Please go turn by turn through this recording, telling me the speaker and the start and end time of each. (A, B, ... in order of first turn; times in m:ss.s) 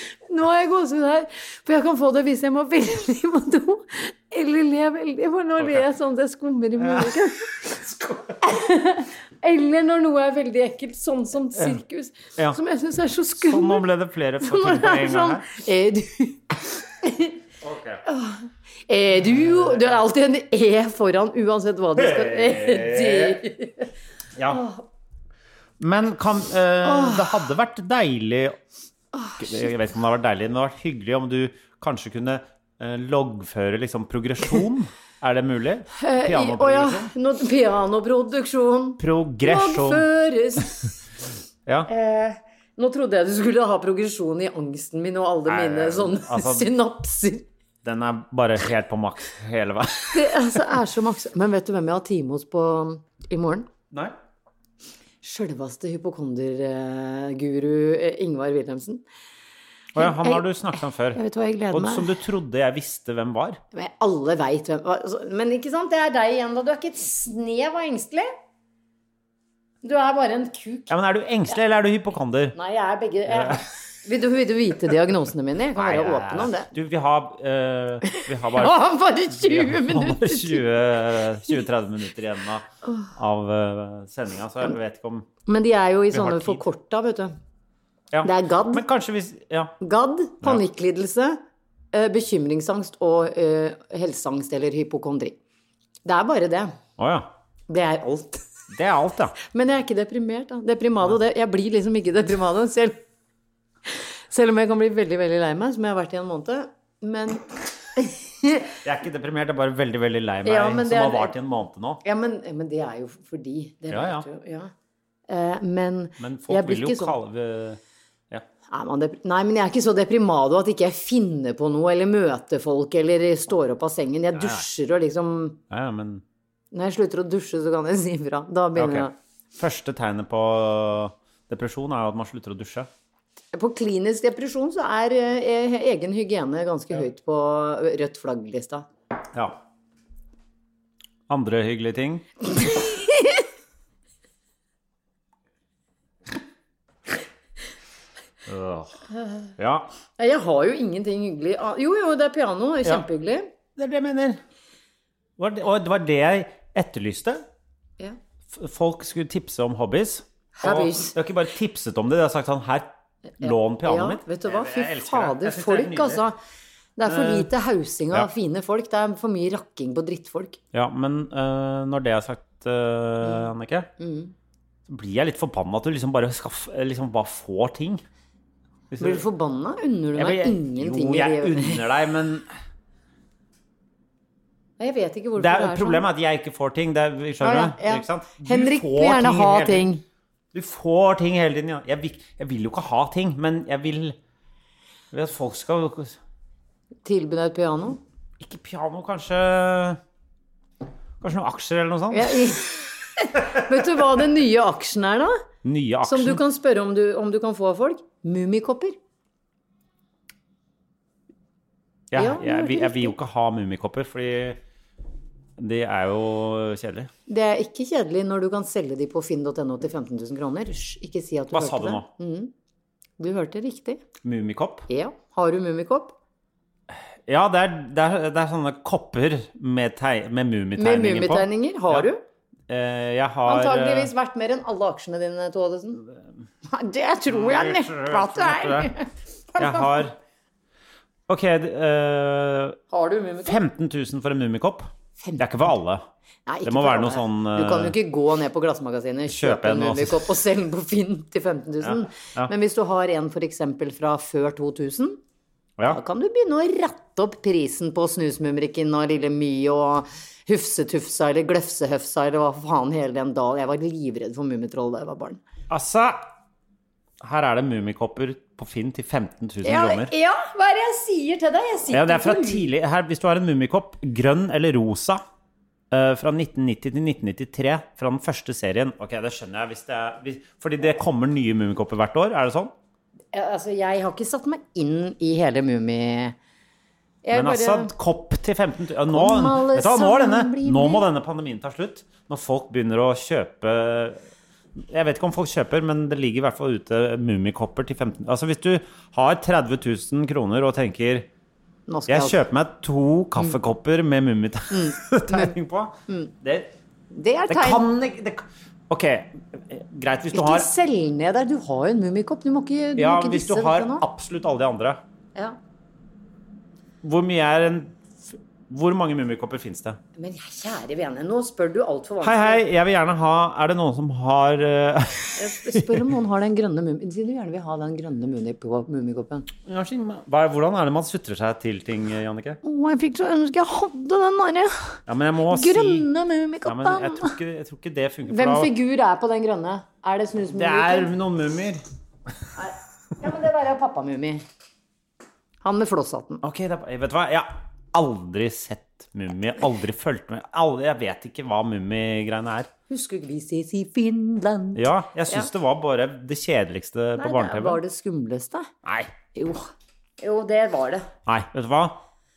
0:00.3-0:07.8 A
0:06.8-0:07.2 B
0:07.8-0:08.3 B
0:08.4-0:13.8 A
0:13.4-0:15.5 B
0:14.4-0:17.4 A
0:17.6-0:18.0 B
0:18.0-0:23.9 A
0:19.5-0:19.8 B
0:22.0-0:23.4 B
0:24.4-0:24.6 B
0:24.5-0:24.8 A
0:25.8-0:28.6 B
0:26.8-0:27.3 A
0:29.1-0:29.6 A
0:29.4-0:37.1 B
0:36.0-0:40.9 A
0:39.0-0:40.1 B
0:41.9-0:47.5 A
0:45.5-0:46.7 B
0:47.8-0:50.4 B
0:50.1-0:53.7 A
0:55.2-0:59.0 A
0:59.9-1:01.2 B
1:00.0-1:00.4 A
1:01.1-1:02.1 A
1:01.7-1:03.6 B
1:03.7-1:08.3 A
1:09.8-1:10.9 A
1:10.9-1:12.6 B
1:12.5-1:16.7 A
1:13.3-1:13.6 B
1:15.8-1:25.3 B
1:18.1-1:20.6 A
1:25.5-1:27.3 A
1:26.1-1:26.6 B
1:28.1-1:29.8 B
1:28.2-1:28.8 A
1:29.8-1:31.4 A
1:31.9-1:35.4 A
1:36.0-1:36.7 A
1:37.0-1:37.3 B
1:37.7-1:38.4 A
1:38.7-1:39.4 B
1:39.4-1:43.0 A
1:43.9-1:48.7 A
1:48.8-1:52.0 B
1:50.4-1:51.3 A
1:52.0-1:54.7 A
1:53.9-1:54.2 B
1:55.3-1:57.2 A
1:56.2-1:57.8 B
1:58.7-2:05.6 A
2:04.3-2:04.6 B
2:05.7-2:06.2 B
2:06.7-2:09.1 A
2:08.8-2:12.9 B
2:13.5-2:18.8 A
2:19.3-2:19.6 B
2:21.3-2:22.3 B
2:22.6-2:23.4 A
2:28.5-2:29.0 B
2:29.1-2:29.5 A
2:29.6-2:29.9 B
2:30.2-2:33.5 A
2:33.8-2:34.4 B
2:35.4-2:37.4 B
2:38.5-2:46.2 B
2:40.6-2:41.2 A
2:43.4-2:46.4 A
2:47.0-2:50.6 A
2:47.0-2:47.5 B
2:50.7-2:53.9 B
2:53.2-2:54.3 A
2:54.9-2:58.0 B
2:58.9-2:59.2 B
2:59.0-3:01.8 A
3:00.2-3:02.5 B
3:04.8-3:06.0 A
3:05.4-3:09.9 B
3:07.4-3:10.0 A
3:10.5-3:14.2 B
3:15.1-3:16.2 B
3:17.0-3:18.0 A
3:18.4-3:20.0 B
3:21.2-3:22.4 B
3:22.1-3:25.3 A
3:25.6-3:26.4 B
3:26.0-3:29.0 A
3:32.1-3:34.6 B
3:32.2-3:33.1 A
3:35.6-3:37.1 B
3:37.3-3:42.5 A
3:41.5-3:42.1 B
3:43.2-3:44.0 A
3:44.2-3:44.9 B
3:44.9-3:46.1 A
3:47.3-3:52.1 B
3:50.8-3:52.2 A
3:52.7-3:54.1 B
3:53.4-3:56.0 A
3:56.7-4:00.0 A
3:57.3-3:58.9 B
3:59.6-4:00.1 B
4:01.3-4:02.8 B
4:02.9-4:03.6 A
4:03.4-4:06.0 B
4:06.4-4:15.2 A
4:06.6-4:08.0 B
4:09.3-4:10.2 B
4:11.8-4:12.5 B
4:15.8-4:25.4 A
4:25.7-4:26.2 B
4:27.2-4:30.1 B
4:29.6-4:32.7 A
4:31.9-4:35.2 B
4:35.9-4:42.7 B
4:43.3-4:46.4 A
4:47.2-4:47.9 A
4:47.3-4:54.2 B
4:49.1-4:51.0 A
4:54.8-5:01.3 B
5:01.9-5:02.4 A
5:02.1-5:06.7 B
5:04.7-5:05.5 A
5:07.1-5:07.8 A
5:07.5-5:10.7 B
5:10.3-5:14.0 A
5:13.0-5:15.0 B
5:17.0-5:20.0 B
5:20.2-5:22.6 A
5:22.2-5:26.0 B
5:25.4-5:29.5 A
5:29.6-5:32.6 B
5:32.6-5:35.0 A
5:35.1-5:36.1 B
5:35.5-5:37.3 A
5:36.6-5:38.7 B
5:38.3-5:41.1 A
5:40.5-5:41.8 B
5:42.6-5:44.4 A
5:45.6-5:46.4 A
5:46.4-5:52.7 B
5:52.9-5:55.5 A
5:54.8-5:57.8 B
5:57.2-5:58.7 A
5:58.8-5:59.1 B
5:59.3-6:01.1 A
6:01.2-6:02.0 B